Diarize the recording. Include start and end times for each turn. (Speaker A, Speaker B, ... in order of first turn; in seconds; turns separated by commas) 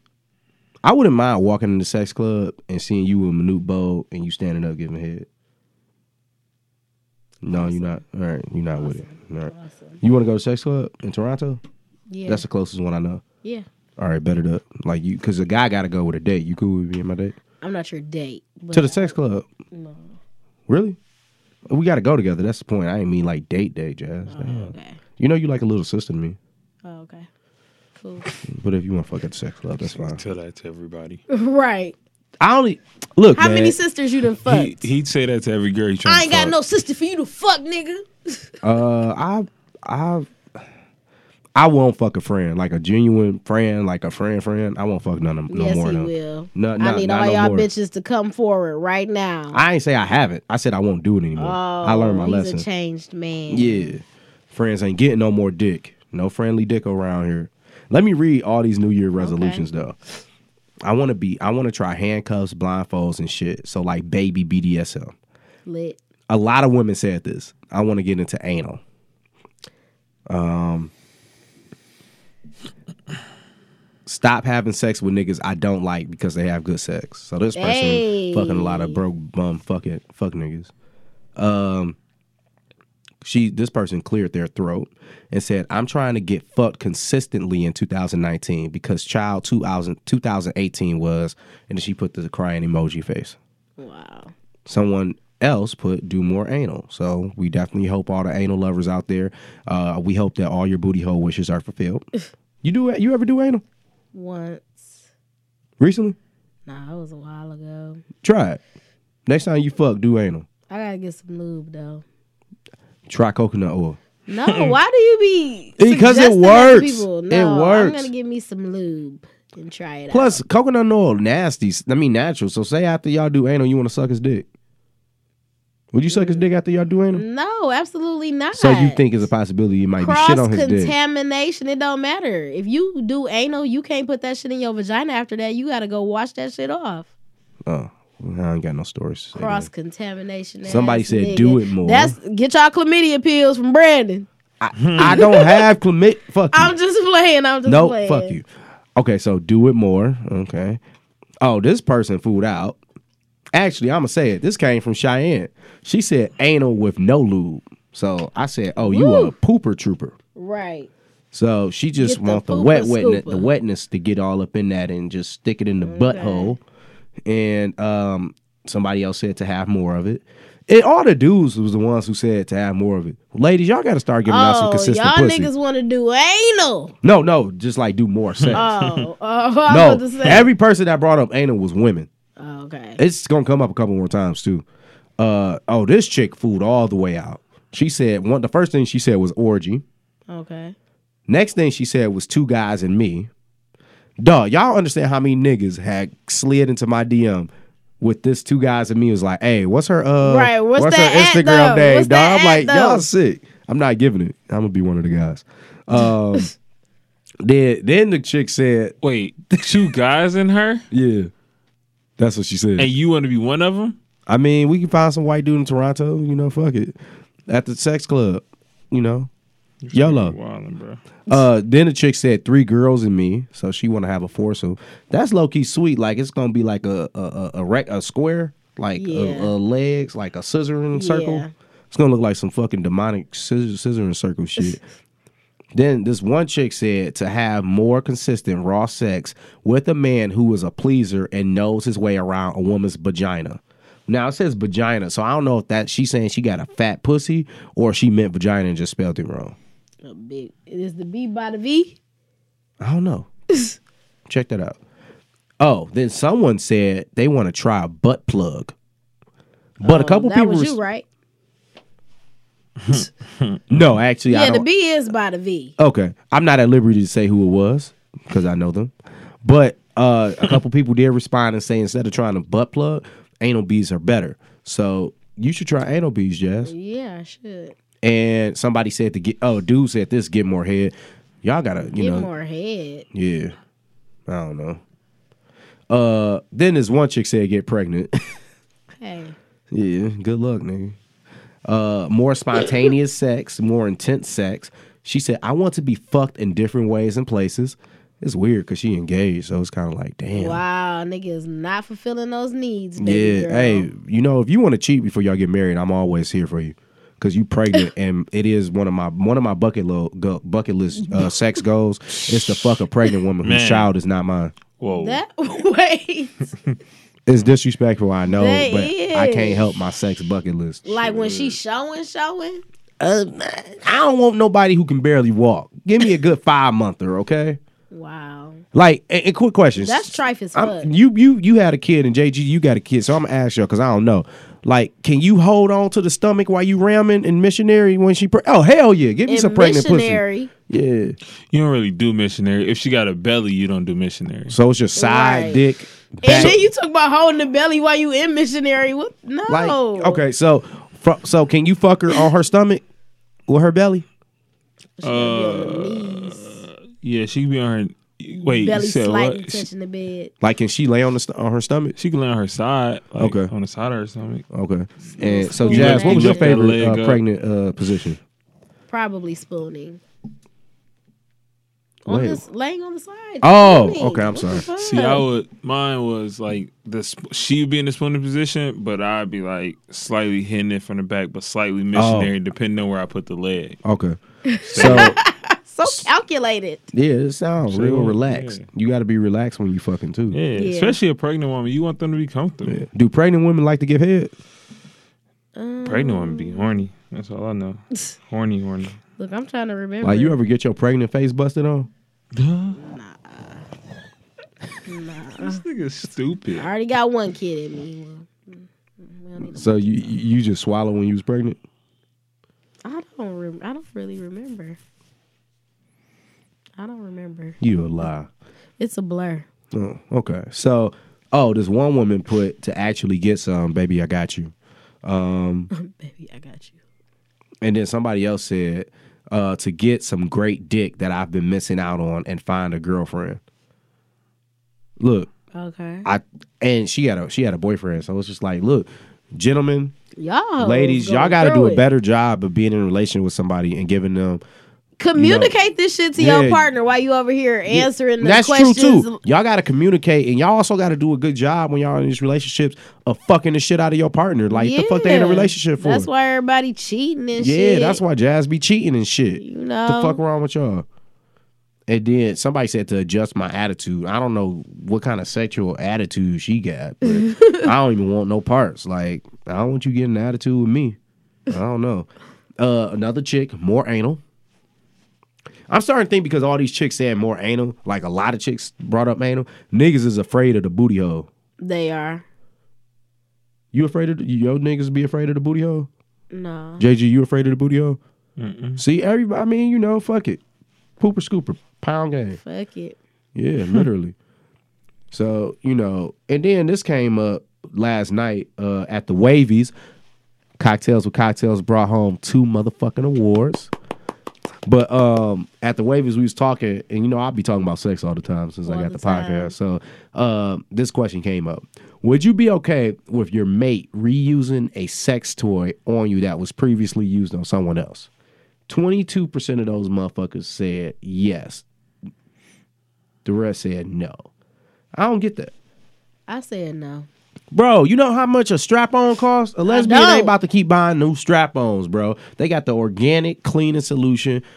Speaker A: 0.8-5.3, Speaker A: 7.4-11.6, Speaker B: 7.5-8.0, Speaker B: 8.8-10.0, Speaker B: 12.1-12.4, Speaker A: 12.2-13.2, Speaker A: 14.0-17.4, Speaker B: 17.6-19.2, Speaker A: 18.7-19.5, Speaker B: 19.7-20.2, Speaker A: 20.7-21.0, Speaker A: 21.7-26.4, Speaker B: 24.3-25.0, Speaker B: 26.8-27.3, Speaker B: 28.0-28.3, Speaker A: 28.4-30.2, Speaker C: 29.8-31.2, Speaker B: 31.3-31.9, Speaker A: 32.4-33.8, Speaker B: 33.4-34.9, Speaker C: 34.4-36.5, Speaker B: 36.0-38.5, Speaker A: 38.6-40.3, Speaker A: 41.5-47.7, Speaker B: 45.5-49.6, Speaker A: 49.5-52.6, Speaker B: 51.4-54.0, Speaker A: 53.5-60.0, Speaker B: 59.2-59.7, Speaker A: 60.8-65.1, Speaker B: 65.7-66.0, Speaker A: 66.3-68.8, Speaker A: 70.3-70.9, Speaker A: 74.0-80.7, Speaker B: 77.5-79.0, Speaker A: 81.3-82.0, Speaker A: 83.2-93.4, Speaker B: 93.8-94.3, Speaker A: 94.7-102.0, Speaker A: 102.6-103.6, Speaker B: 104.1-105.0, Speaker A: 105.8-106.2, Speaker B: 106.7-108.0, Speaker A: 108.2-108.6, Speaker A: 109.2-110.5, Speaker B: 110.7-112.0, Speaker A: 113.1-114.0, Speaker B: 114.3-120.4, Speaker C: 114.4-114.8, Speaker A: 115.8-118.1, Speaker A: 120.1-124.5, Speaker A: 125.9-127.2, Speaker B: 126.1-126.4, Speaker B: 127.1-129.0, Speaker A: 128.5-130.9, Speaker B: 130.0-137.1, Speaker A: 137.7-139.7, Speaker B: 139.3-144.3, Speaker A: 140.6-142.2, Speaker A: 144.6-146.7, Speaker C: 144.8-145.2, Speaker B: 145.0-145.7, Speaker B: 146.5-148.4, Speaker A: 147.7-148.4, Speaker A: 148.9-150.8, Speaker A: 151.4-152.8, Speaker A: 153.5-160.1, Speaker B: 158.8-159.3, Speaker B: 160.3-160.9, Speaker A: 161.3-166.6, Speaker B: 162.0-163.5, Speaker B: 165.8-166.6, Speaker A: 167.2-175.5, Speaker B: 174.2-176.9, Speaker A: 177.0-178.7, Speaker C: 178.4-179.1, Speaker B: 178.5-180.5, Speaker A: 179.7-182.1, Speaker B: 182.4-183.0, Speaker A: 183.0-184.6, Speaker A: 185.2-189.8, Speaker B: 190.3-190.8, Speaker A: 191.3-193.3, Speaker A: 194.2-197.5, Speaker A: 198.0-206.5, Speaker B: 200.2-203.1, Speaker B: 206.0-206.4, Speaker A: 207.4-208.9, Speaker C: 209.0-210.8, Speaker A: 210.9-211.3, Speaker A: 212.2-212.9, Speaker C: 212.8-213.9, Speaker A: 214.3-216.9, Speaker A: 217.5-219.3, Speaker C: 219.8-221.0, Speaker A: 219.9-220.3, Speaker A: 221.3-234.8, Speaker B: 229.0-229.5, Speaker B: 230.9-231.5, Speaker A: 235.7-249.6, Speaker B: 250.0-252.0, Speaker A: 252.8-253.3, Speaker B: 253.5-253.8, Speaker A: 254.3-254.8, Speaker A: 255.6-258.7, Speaker A: 259.8-260.8, Speaker B: 259.8-261.1, Speaker C: 262.8-263.6, Speaker A: 263.7-264.6, Speaker B: 264.3-265.7, Speaker A: 265.8-268.9, Speaker A: 269.4-276.7, Speaker B: 276.6-277.8, Speaker A: 278.0-282.3, Speaker B: 281.9-283.1, Speaker A: 283.1-283.5, Speaker A: 284.3-284.8, Speaker A: 285.9-288.2, Speaker B: 289.0-289.4, Speaker A: 289.7-291.0, Speaker A: 291.6-300.6, Speaker B: 300.3-303.9, Speaker A: 303.0-314.5, Speaker B: 311.1-311.6, Speaker C: 313.4-313.9, Speaker C: 314.8-315.2, Speaker B: 314.9-316.5, Speaker A: 317.3-321.5, Speaker B: 318.3-319.6, Speaker B: 320.8-322.6, Speaker A: 323.0-327.6, Speaker B: 327.9-328.6, Speaker A: 328.7-341.1, Speaker B: 329.8-330.9, Speaker B: 339.3-340.5, Speaker C: 341.5-344.6, Speaker A: 344.5-346.6, Speaker B: 344.9-345.6, Speaker B: 346.2-350.2, Speaker C: 346.2-346.6, Speaker A: 349.5-352.8, Speaker A: 353.5-354.0, Speaker B: 355.0-356.6, Speaker C: 355.0-359.7, Speaker B: 358.3-360.3, Speaker A: 360.4-361.9, Speaker C: 362.0-364.4, Speaker A: 363.2-363.5, Speaker A: 364.5-368.2, Speaker B: 365.2-366.6, Speaker C: 365.5-367.2, Speaker B: 368.9-370.0, Speaker B: 372.1-375.2, Speaker A: 372.1-372.4, Speaker A: 373.4-374.7, Speaker C: 374.8-383.8, Speaker A: 381.9-382.3, Speaker A: 383.8-384.2, Speaker B: 384.4-386.9, Speaker C: 384.7-385.1, Speaker A: 384.8-385.1, Speaker A: 386.9-390.4, Speaker C: 387.7-388.6, Speaker C: 390.3-392.8, Speaker B: 390.5-391.0, Speaker A: 392.6-394.3, Speaker B: 395.5-396.9, Speaker C: 395.8-399.0, Speaker B: 399.2-400.4, Speaker A: 400.0-401.9, Speaker C: 402.3-402.8, Speaker B: 402.7-403.6, Speaker B: 404.9-405.6, Speaker C: 405.4-406.7, Speaker B: 406.5-410.1, Speaker A: 409.4-411.6, Speaker B: 412.8-414.8, Speaker B: 416.8-418.1, Speaker A: 417.6-418.3, Speaker B: 418.8-419.5, Speaker A: 419.7-424.5, Speaker A: 425.0-425.7, Speaker B: 425.7-426.8, Speaker A: 427.6-433.4, Speaker A: 435.0-435.3, Speaker B: 435.5-436.1, Speaker A: 436.0-439.9, Speaker B: 440.2-441.8, Speaker A: 440.6-444.4, Speaker B: 445.0-449.2, Speaker A: 445.1-445.5, Speaker A: 446.1-446.7, Speaker A: 447.7-456.1, Speaker B: 454.5-458.0, Speaker A: 457.4-460.8, Speaker B: 459.4-460.2, Speaker A: 461.9-471.0, Speaker B: 467.0-467.7, Speaker A: 471.5-472.1, Speaker A: 472.6-474.2, Speaker A: 475.7-481.3, Speaker B: 481.6-482.2, Speaker A: 483.7-485.9, Speaker B: 486.3-486.8, Speaker A: 486.8-488.0, Speaker C: 488.4-488.8, Speaker A: 488.8-490.4, Speaker A: 491.0-492.4, Speaker B: 492.3-493.0, Speaker A: 493.3-494.1, Speaker A: 495.1-499.7, Speaker A: 500.6-503.7, Speaker A: 504.6-518.1, Speaker B: 508.6-509.5, Speaker A: 518.7-521.6, Speaker A: 523.2-524.2, Speaker A: 524.9-525.5, Speaker B: 526.3-527.1, Speaker A: 527.5-534.4, Speaker B: 529.6-530.3